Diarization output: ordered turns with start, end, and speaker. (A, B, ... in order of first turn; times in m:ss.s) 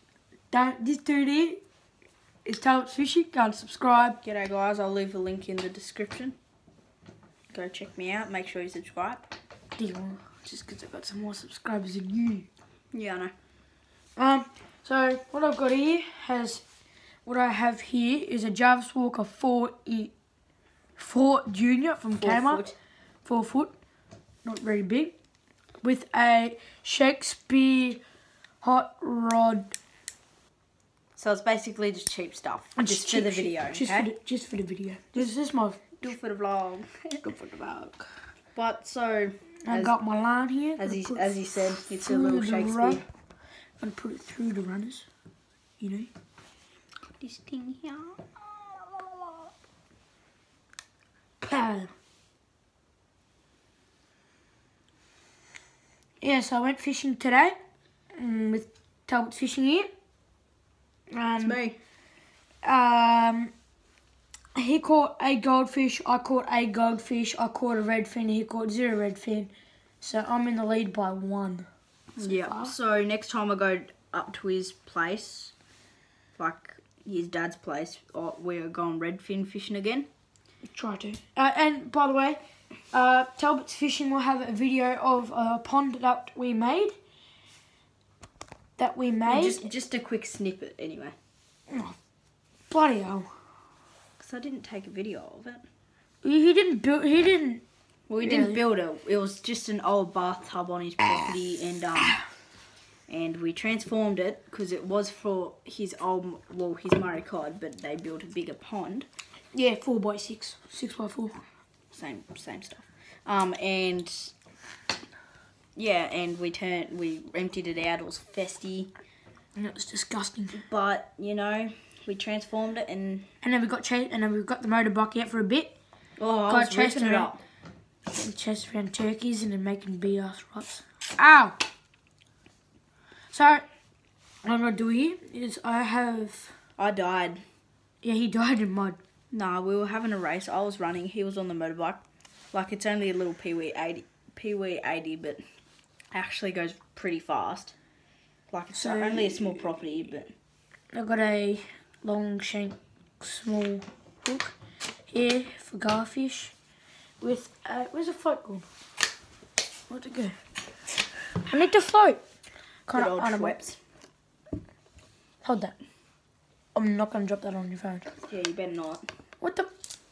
0:00.5-0:01.6 A
0:02.4-0:04.2 A
0:04.2-0:06.4 B
0:07.5-0:09.3 B
0:09.7-0:12.5 A
0:12.9-0:13.3 B
0:14.2-0:16.6 A
0:17.2-0:20.1 A
0:21.0-0:22.6 A
0:22.2-0:22.7 B
0:23.2-0:23.7 A
0:24.4-0:25.1 A
0:25.8-0:28.0 A
0:28.6-0:29.7 A
0:31.2-0:34.1 B
0:32.8-0:36.0 A
0:36.0-0:37.2 B
0:37.2-0:38.0 A
0:38.5-0:40.0 B
0:39.6-0:43.0 A
0:40.8-0:43.0 B
0:43.8-0:45.1 A
0:45.8-0:46.1 A
0:47.2-0:49.5 B
0:51.4-0:51.9 A
0:56.2-0:57.6 A
0:58.1-0:59.9 A
1:01.1-1:01.6 A
1:01.4-1:01.8 B
1:02.6-1:03.5 A
1:04.5-1:11.7 A
1:12.2-1:12.7 A
1:12.2-1:15.5 B
1:16.4-1:20.1 B
1:20.7-1:22.4 A
1:22.9-1:27.0 A
1:28.8-1:29.6 A
1:29.2-1:31.1 B
1:31.7-1:32.0 A
1:32.7-1:33.3 A
1:34.2-1:35.6 B
1:36.2-1:37.6 A
1:38.1-1:42.2 B
1:38.2-1:38.6 A
1:43.1-1:49.1 B
1:49.5-1:51.4 A
1:51.9-1:54.3 B
1:55.8-1:58.9 B
1:59.6-2:00.6 A
2:00.5-2:03.3 B
2:03.4-2:05.8 A
2:06.2-2:07.4 B
2:06.5-2:07.3 A
2:08.1-2:11.6 A
2:13.3-2:13.6 A
2:14.4-2:16.5 A
2:16.8-2:17.4 B
2:18.0-2:19.0 A
2:19.3-2:22.0 B
2:22.5-2:25.4 B
2:26.1-2:27.8 B
2:28.5-2:30.3 B
2:28.7-2:29.6 A
2:30.9-2:34.6 A
2:35.1-2:36.5 A
2:37.2-2:38.6 A
2:39.9-2:40.4 A
2:41.4-2:42.2 A
2:42.9-2:43.6 A
2:42.9-2:43.8 B
2:45.4-2:45.8 A
2:46.7-2:48.1 A
2:48.2-2:49.1 B
2:49.4-2:49.7 A